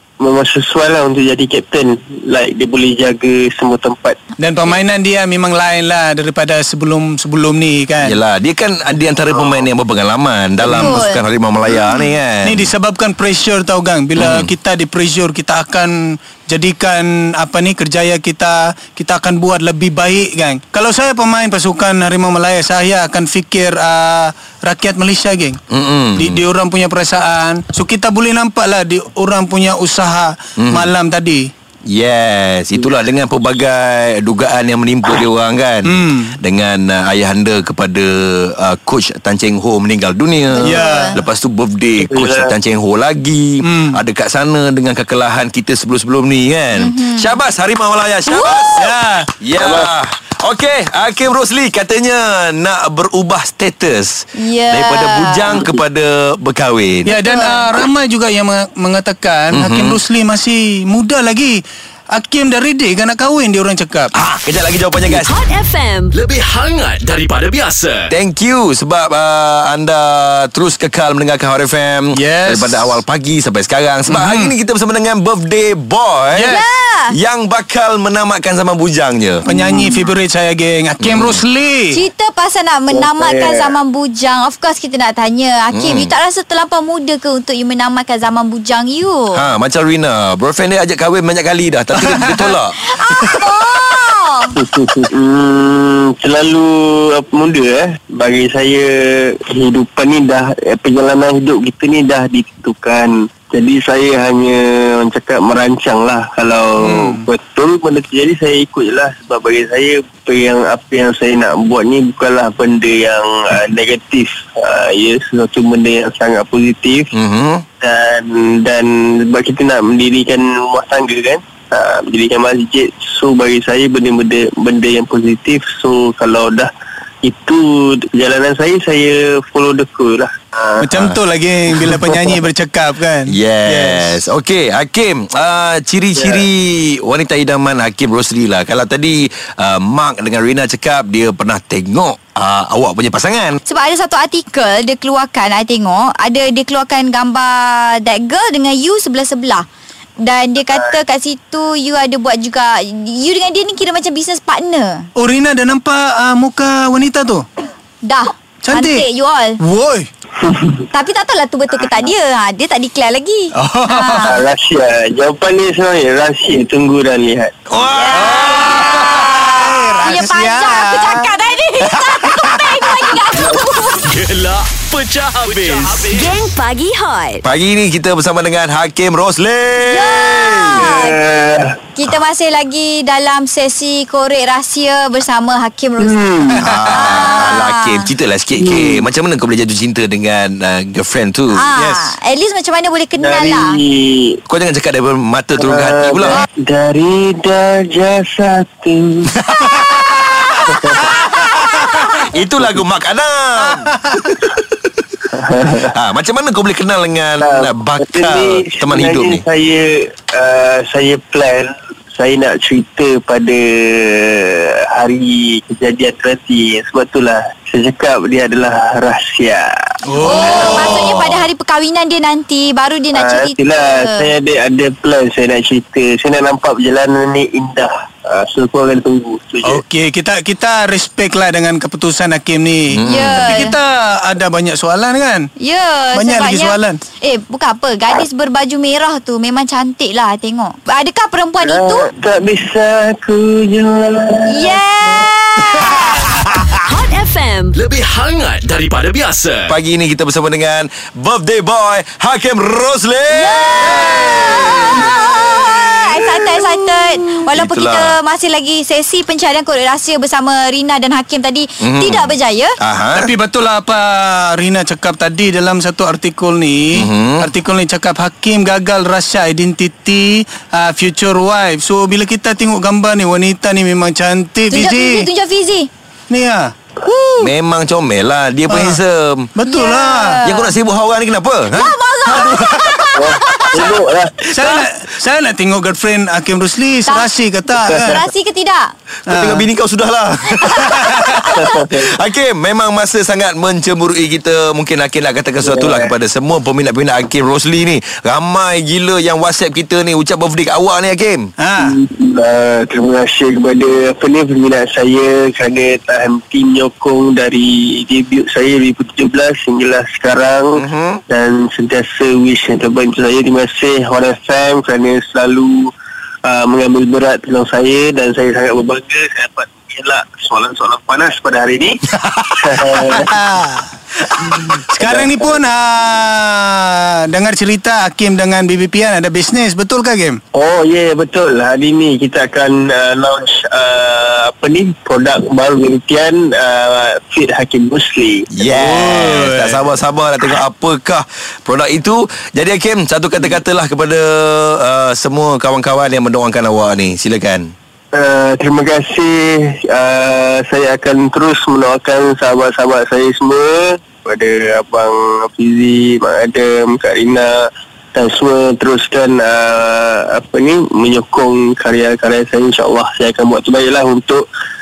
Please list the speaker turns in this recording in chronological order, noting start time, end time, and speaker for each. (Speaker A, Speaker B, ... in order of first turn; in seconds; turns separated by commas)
Speaker A: 0.2-4.2, Speaker B: 4.4-8.2, Speaker C: 8.0-12.7, Speaker A: 9.3-9.6, Speaker B: 10.7-11.0, Speaker D: 10.7-11.2, Speaker B: 12.4-25.6, Speaker C: 14.2-14.5, Speaker C: 25.7-26.4, Speaker B: 26.1-31.5, Speaker C: 30.6-30.9, Speaker C: 31.9-48.9, Speaker B: 35.8-36.4, Speaker D: 40.5-41.2, Speaker B: 40.6-41.2, Speaker A: 42.0-42.5, Speaker B: 43.6-44.0, Speaker D: 46.7-47.4, Speaker D: 48.3-48.8, Speaker B: 48.8-49.3, Speaker C: 49.4-57.1, Speaker A: 49.6-49.9, Speaker D: 54.4-55.5, Speaker A: 55.5-55.8, Speaker B: 57.0-61.6, Speaker D: 57.2-57.7, Speaker C: 59.5-60.0, Speaker B: 62.1-64.1, Speaker C: 64.2-65.3, Speaker E: 65.0-66.1, Speaker F: 66.1-68.1, Speaker C: 68.1-76.5, Speaker B: 72.1-73.0, Speaker B: 74.1-74.5, Speaker B: 76.3-76.7, Speaker D: 76.5-77.1, Speaker C: 77.1-79.5, Speaker B: 79.4-82.0, Speaker C: 81.0-81.4, Speaker D: 81.9-89.4, Speaker A: 82.9-83.8, Speaker C: 85.7-86.1, Speaker C: 89.3-92.8, Speaker B: 92.1-92.3, Speaker D: 92.8-94.5, Speaker A: 94.6-117.1, Speaker B: 106.8-107.2, Speaker C: 117.1-117.6, Speaker A: 117.8-126.7, Speaker A: 127.2-130.8, Speaker B: 130.8-134.2, Speaker C: 133.3-143.6, Speaker A: 136.2-136.4, Speaker D: 143.7-149.7, Speaker D: 150.2-155.1, Speaker B: 155.2-157.4, Speaker D: 158.0-159.6, Speaker B: 158.6-159.0, Speaker B: 159.6-160.1, Speaker A: 160.4-160.8, Speaker D: 160.9-164.4, Speaker B: 163.5-164.3, Speaker A: 164.2-167.5, Speaker C: 167.7-169.5, Speaker D: 167.9-174.1, Speaker B: 168.1-171.4, Speaker B: 171.9-173.1, Speaker F: 174.0-176.4, Speaker E: 176.1-177.4, Speaker C: 177.4-180.8, Speaker D: 179.8-181.2, Speaker A: 180.7-181.8, Speaker D: 181.9-186.1, Speaker A: 186.0-186.7, Speaker B: 186.6-187.3, Speaker C: 186.6-191.7, Speaker D: 186.9-188.1, Speaker A: 188.6-189.0, Speaker D: 191.5-193.8, Speaker B: 191.7-192.1, Speaker A: 193.2-194.4, Speaker C: 194.5-196.4, Speaker A: 195.6-199.3, Speaker B: 199.4-200.5, Speaker A: 200.7-201.2, Speaker B: 201.3-202.1, Speaker D: 201.5-202.0, Speaker C: 202.1-204.0, Speaker B: 203.9-204.3, Speaker A: 205.3-205.9, Speaker C: 205.9-209.4, Speaker A: 207.4-219.6, Speaker B: 220.1-220.9, Speaker D: 220.2-224.3, Speaker C: 220.2-221.4, Speaker A: 223.1-229.8, Speaker B: 229.6-235.5, Speaker C: 232.9-233.6, Speaker D: 233.0-233.8, Speaker D: 235.6-242.1, Speaker B: 236.1-237.0, Speaker A: 241.6-244.8, Speaker D: 244.5-246.3, Speaker E: 246.9-247.7, Speaker F: 247.7-249.7, Speaker C: 249.7-256.7, Speaker D: 253.3-262.8, Speaker C: 257.5-258.1, Speaker C: 261.8-263.3, Speaker B: 263.1-275.3, Speaker C: 266.9-267.5, Speaker D: 274.7-275.9, Speaker B: 276.3-277.3, Speaker C: 277.4-279.5, Speaker B: 278.7-279.0, Speaker B: 279.6-280.4, Speaker D: 279.6-280.7, Speaker C: 280.4-282.6, Speaker D: 281.7-284.0, Speaker B: 282.5-283.0, Speaker A: 283.1-284.5, Speaker B: 284.5-288.2, Speaker A: 287.8-288.2, Speaker D: 287.9-288.9, Speaker C: 289.3-301.5, Speaker B: 289.3-289.7, Speaker D: 290.6-291.7, Speaker A: 291.5-292.1, Speaker A: 295.6-296.1, Speaker B: 301.6-302.0, Speaker A: 301.8-315.9, Speaker C: 310.8-311.2, Speaker A: 316.4-322.0, Speaker B: 322.1-330.4, Speaker A: 322.6-323.4, Speaker A: 324.4-325.6, Speaker A: 330.5-338.5, Speaker C: 338.5-347.7, Speaker B: 338.6-339.8, Speaker A: 348.1-357.5, Speaker A: 358.1-364.4